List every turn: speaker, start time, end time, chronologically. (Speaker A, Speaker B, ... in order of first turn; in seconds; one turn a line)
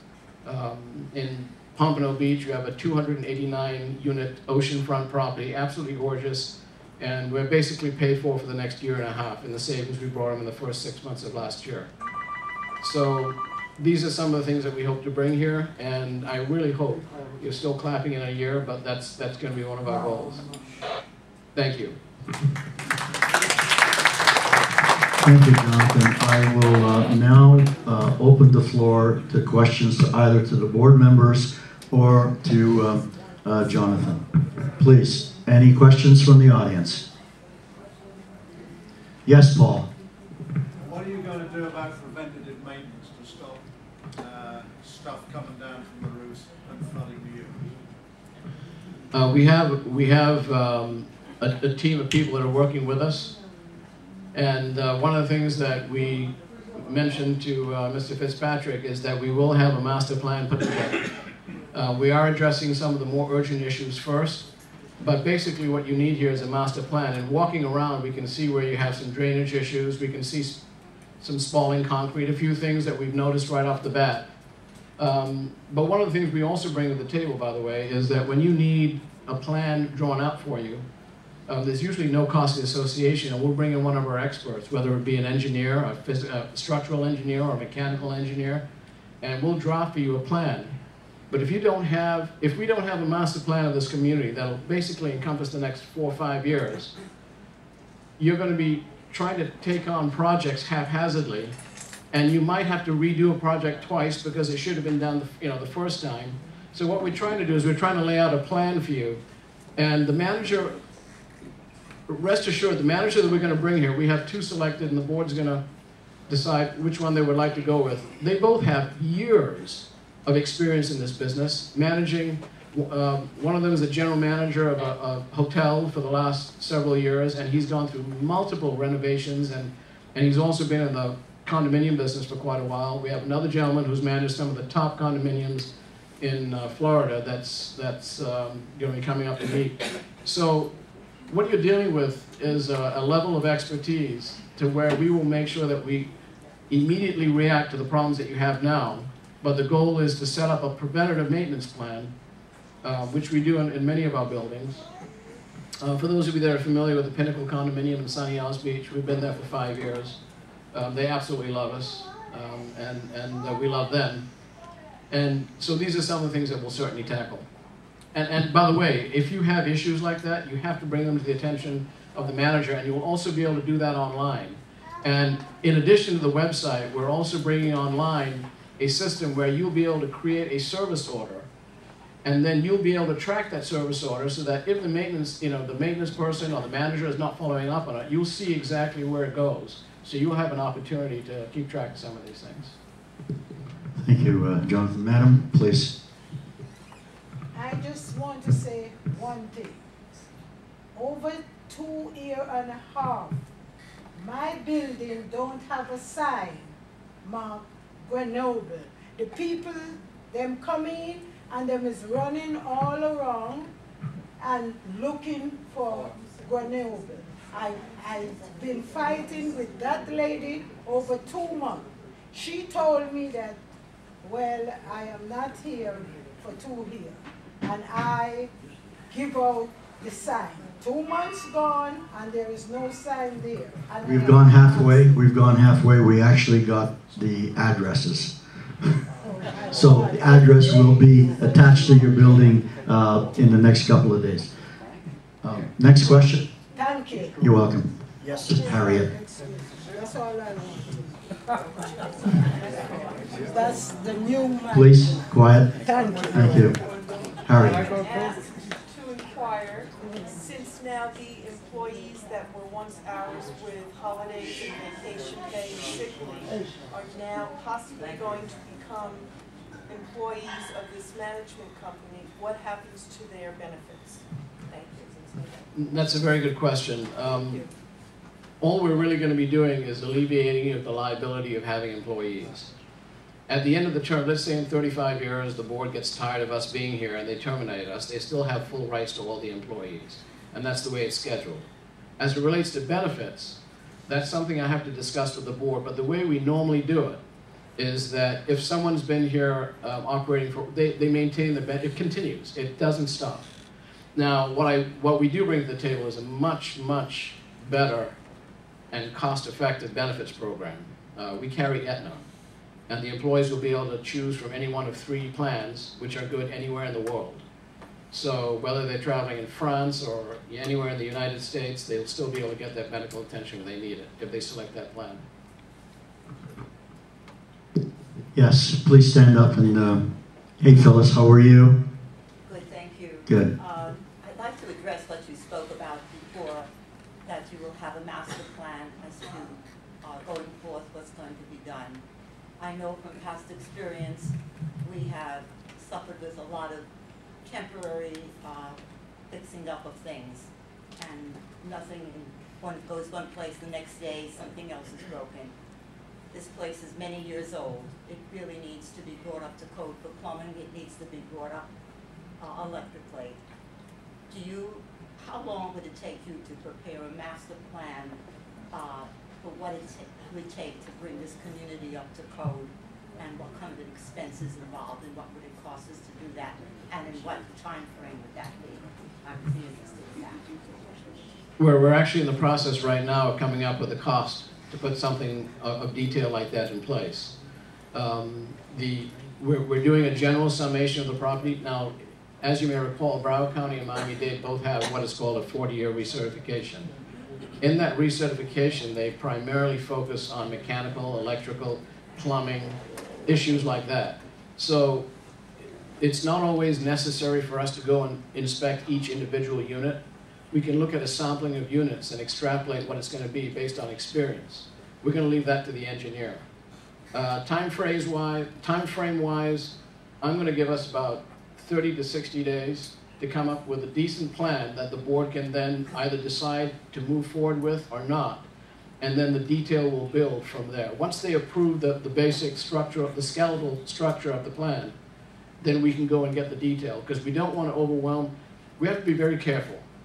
Speaker A: 0.4-11.9
Speaker A: 12.8-20.5
Speaker A: 21.5-22.0
Speaker B: 25.2-34.2
Speaker B: 34.8-37.1
Speaker B: 39.2-39.9
Speaker C: 40.8-43.6
Speaker C: 44.2-47.7
Speaker A: 49.1-53.3
Speaker A: 54.3-61.1
Speaker A: 61.7-64.5
Speaker A: 65.0-70.6
Speaker A: 71.2-74.2
Speaker A: 75.0-80.8
Speaker A: 81.5-88.6
Speaker A: 89.2-90.7
Speaker A: 91.3-96.9
Speaker A: 98.2-101.5
Speaker A: 102.1-109.2
Speaker A: 109.8-110.7
Speaker A: 112.1-115.6
Speaker A: 116.3-140.7
Speaker A: 141.3-146.1
Speaker A: 146.7-152.1
Speaker A: 152.8-154.8
Speaker A: 155.8-160.2
Speaker A: 160.7-164.2
Speaker A: 165.1-167.4
Speaker A: 168.1-181.5
Speaker A: 182.2-192.7
Speaker B: 193.9-196.0
Speaker D: 197.5-199.8
Speaker D: 200.9-203.4
Speaker D: 204.2-206.7
Speaker D: 207.2-213.7
Speaker D: 214.4-223.6
Speaker D: 224.2-228.5
Speaker D: 229.1-235.2
Speaker B: 234.0-238.9
Speaker D: 239.2-242.4
Speaker B: 239.7-244.5
Speaker B: 245.4-246.5
Speaker D: 246.7-247.4
Speaker B: 247.4-249.1
Speaker D: 248.5-251.0
Speaker D: 253.4-255.2
Speaker B: 254.7-255.7
Speaker D: 255.8-256.8
Speaker B: 256.3-256.8
Speaker B: 257.4-257.9
Speaker E: 257.5-269.3
Speaker E: 269.9-275.6
Speaker A: 275.7-277.6
Speaker A: 278.6-282.7
Speaker A: 283.5-291.7
Speaker A: 292.2-297.2
Speaker A: 297.8-303.5
Speaker A: 304.1-308.1
Speaker A: 308.9-312.2
Speaker A: 312.9-317.4
Speaker A: 318.1-325.2
Speaker B: 328.3-331.9
Speaker F: 332.4-336.7
Speaker B: 333.3-333.5
Speaker F: 337.2-342.0
Speaker F: 342.6-346.9
Speaker F: 347.4-355.5
Speaker F: 356.3-361.7
Speaker F: 362.4-363.4
Speaker F: 364.3-368.2
Speaker F: 368.7-380.5
Speaker A: 381.6-387.3
Speaker A: 387.9-396.9
Speaker A: 397.6-405.1
Speaker A: 406.0-410.0
Speaker A: 410.5-416.4
Speaker A: 417.1-428.4
Speaker A: 429.0-434.9
Speaker A: 435.6-439.8